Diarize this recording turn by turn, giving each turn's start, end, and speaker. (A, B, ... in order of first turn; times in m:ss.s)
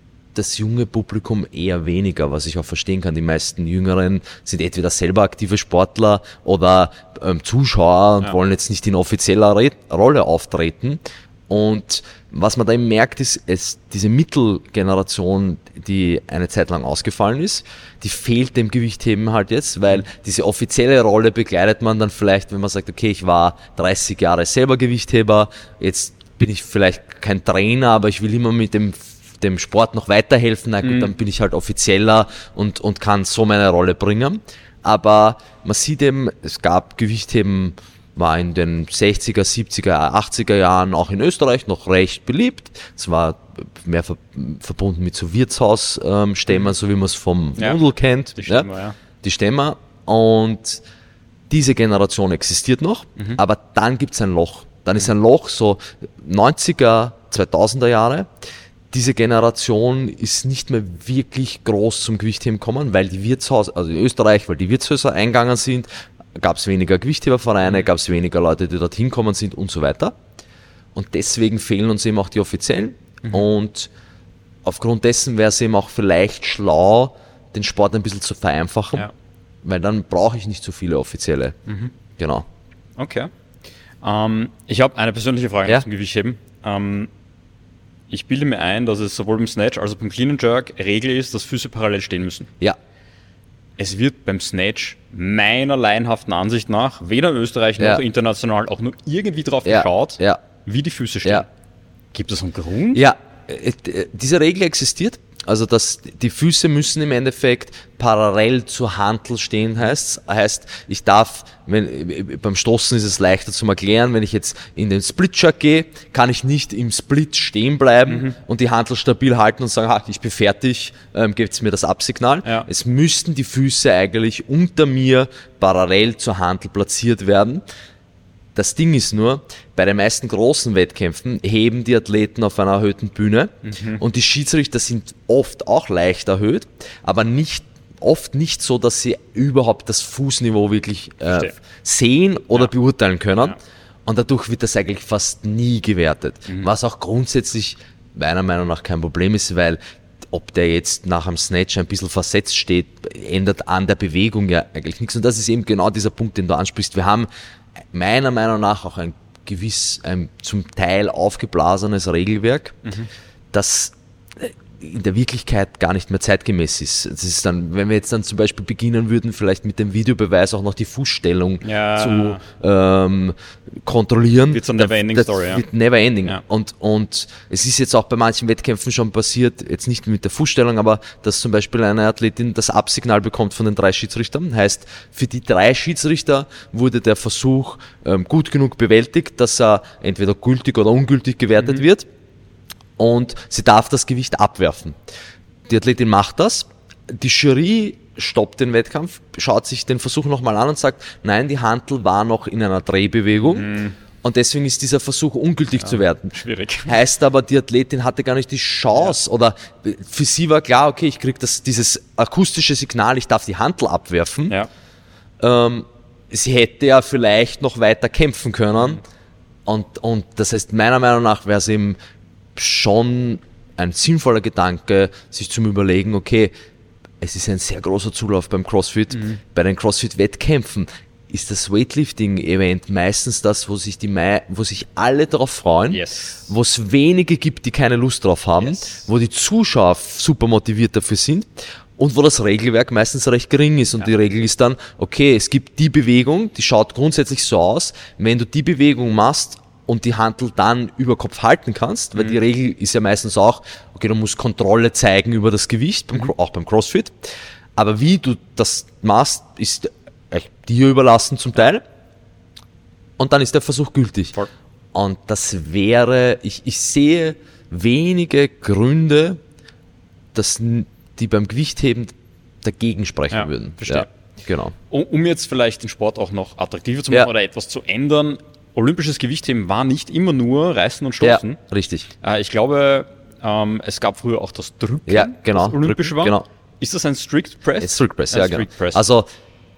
0:00.3-0:48.7 A
0:30.8-0:31.1 B
0:47.6-0:47.8 B
0:48.4-0:48.9 B
0:49.2-0:50.8 A
0:51.5-0:58.3 A
0:58.9-1:10.1 A
1:10.9-1:13.9 A
1:14.6-1:19.1 A
1:19.6-1:21.6 A
1:21.7-1:21.9 B
1:22.2-1:22.4 A
1:23.0-1:23.3 B
1:24.0-1:27.1 B
1:28.1-1:32.5 B
1:33.8-1:41.5 B
1:39.6-1:40.4 A
1:42.1-1:43.0 B
1:42.9-2:07.6 A
1:58.1-1:58.4 B
2:08.5-2:29.8 A
2:13.6-2:14.0 B
2:30.3-2:37.3 A
2:37.9-2:42.8 A
2:43.5-3:12.0 A
2:51.6-2:52.4 B
2:54.4-2:55.6 B
3:13.0-3:15.0 A
3:15.7-3:23.7 A
3:23.4-3:24.0 B
3:24.2-3:34.6 A
3:25.8-3:26.9 B
3:35.4-3:39.0 A
3:39.6-3:42.0 A
3:42.6-3:46.5 A
3:47.2-4:17.2 A
3:49.1-3:49.4 B
3:55.9-3:56.5 B
3:58.6-3:59.0 B
4:17.8-4:21.8 A
4:23.2-4:24.3 A
4:24.9-4:29.4 A
4:30.3-4:34.7 A
4:33.3-4:34.1 B
4:34.9-4:41.6 B
4:41.2-4:42.1 A
4:42.2-4:49.0 B
4:45.1-4:46.4 A
4:47.8-4:49.2 A